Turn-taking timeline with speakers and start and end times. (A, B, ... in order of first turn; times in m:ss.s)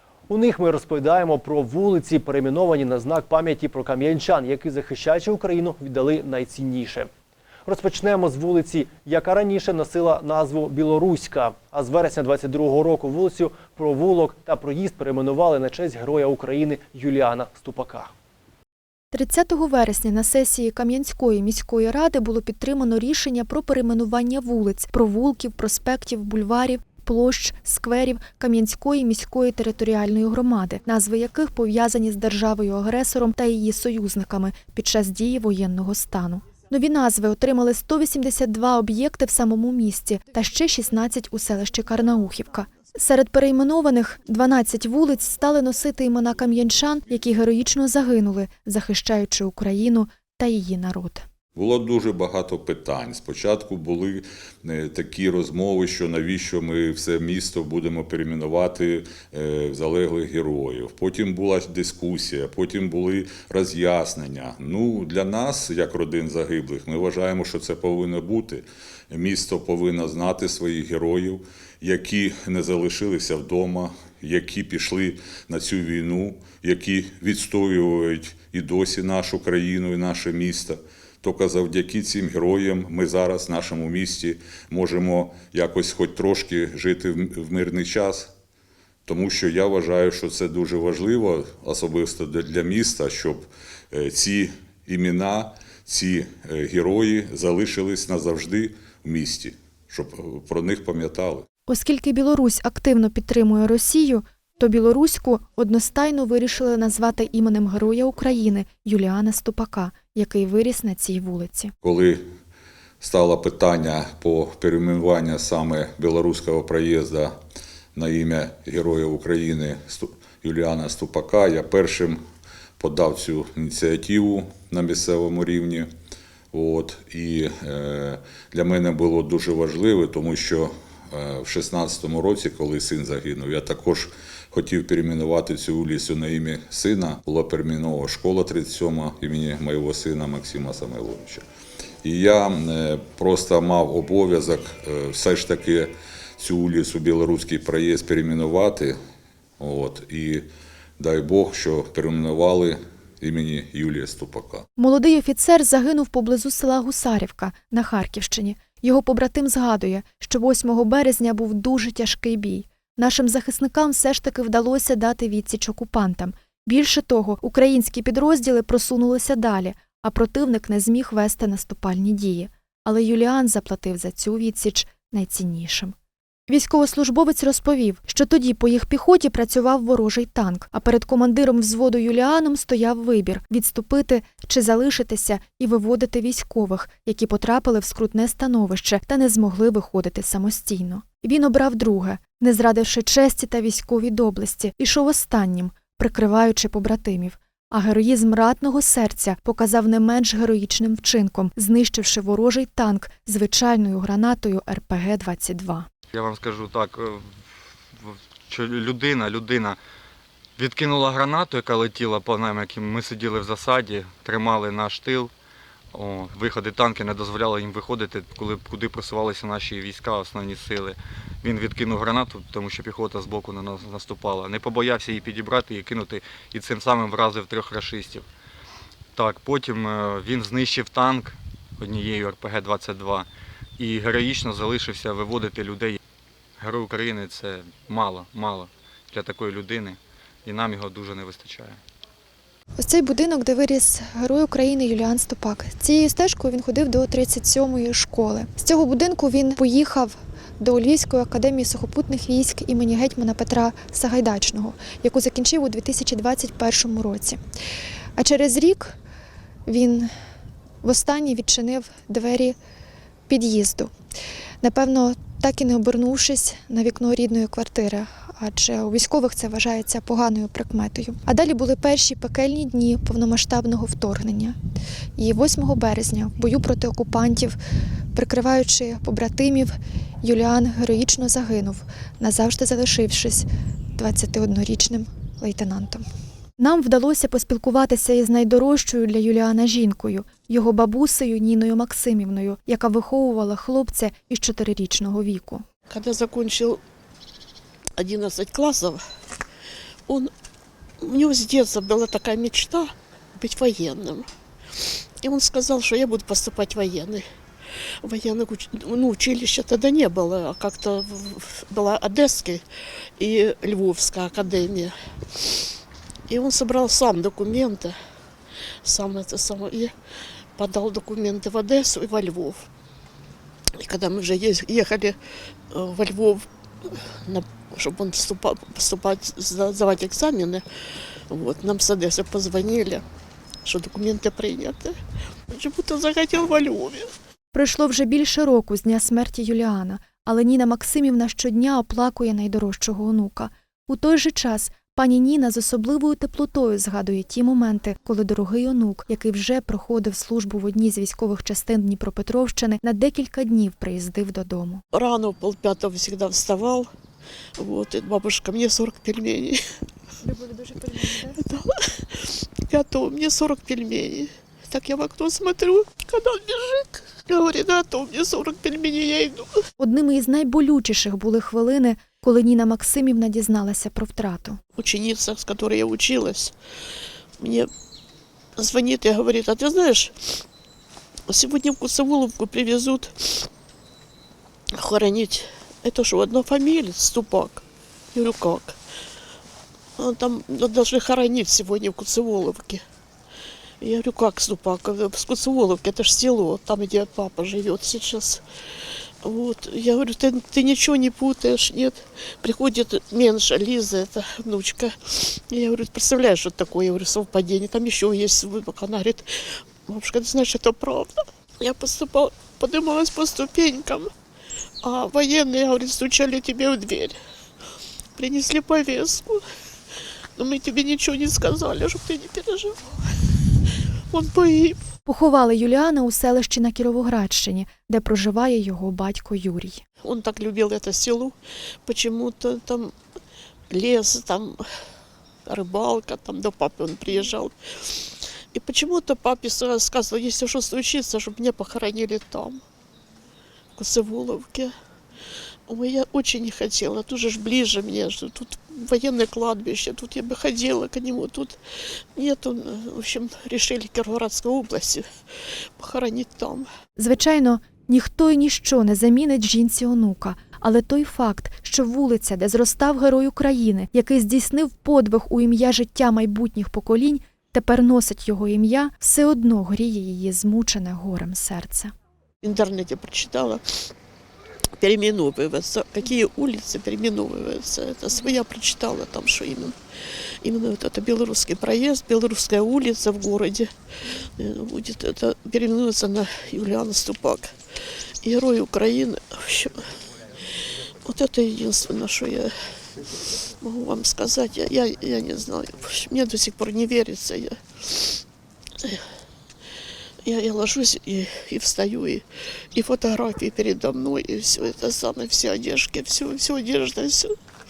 0:00.3-0:07.1 A
0:07.6-0:18.1 A
0:19.1-0:51.2 B
0:51.5-1:28.3 C
1:29.0-1:41.4 C
1:41.7-1:51.7 B
1:51.8-1:52.2 C
1:53.0-1:57.4 C
1:57.9-2:02.2 C
2:02.8-2:05.9 C
2:06.5-2:21.4 C
2:22.0-2:29.0 C
2:29.6-2:30.4 C
2:31.0-2:34.6 C
2:34.8-2:55.9 B
2:56.5-3:25.9 B
3:26.1-3:27.3 D
3:27.9-3:29.8 D
3:30.6-3:35.3 D
3:35.9-3:48.3 D
3:49.1-3:56.0 D
3:56.6-4:01.8 D
4:02.8-4:17.4 B
4:18.2-4:19.0 B
4:19.7-4:20.1 B
4:20.8-4:22.6 B
4:23.3-4:23.9 B
4:24.6-4:34.6 B
4:35.2-4:37.6 B
4:38.1-4:46.0 B
4:46.6-4:55.6 B
4:55.9-4:56.8 E
4:58.0-4:59.0 E
5:01.0-5:04.3 E
5:04.8-5:07.2 E
5:08.0-5:12.6 E
5:13.2-5:15.6 E
5:16.3-5:17.9 E
5:18.8-5:19.9 E
5:20.6-5:22.7 E
5:23.8-5:25.2 E
5:25.7-5:30.6 E
5:31.3-5:33.0 E
5:33.6-5:34.9 E
5:35.5-5:37.1 E
5:37.5-5:54.8 B
5:54.9-5:56.9 E
5:57.6-5:59.6 E
6:00.2-6:01.4 B
6:01.4-6:09.5 E
6:09.8-6:14.6 B
6:14.8-6:16.5 E
6:17.4-6:17.7 E
6:18.6-6:20.1 E
6:21.3-6:23.5 E
6:24.7-6:27.6 E
6:28.1-6:28.8 E
6:30.0-6:32.8 E
6:33.8-6:38.4 E
6:39.2-6:49.2 E
6:49.9-6:54.1 E
6:54.8-6:57.2 E
6:58.2-6:59.4 E
7:00.4-7:03.0 E
7:04.1-7:04.8 E
7:05.0-7:09.8 B
7:10.0-7:11.3 E
7:11.8-7:12.9 E
7:13.7-7:14.6 E
7:15.4-7:22.6 E
7:23.8-7:24.7 E
7:25.7-7:31.6 E
7:32.2-7:35.0 E
7:35.8-7:36.6 E
7:37.0-7:51.9 B
7:52.4-7:53.6 E
7:54.8-7:59.7 E
8:00.4-8:03.7 E
8:04.4-8:07.5 E
8:08.2-8:09.7 E
8:11.0-8:12.5 E
8:13.6-8:18.2 E
8:20.2-8:22.2 E
8:22.7-8:27.3 E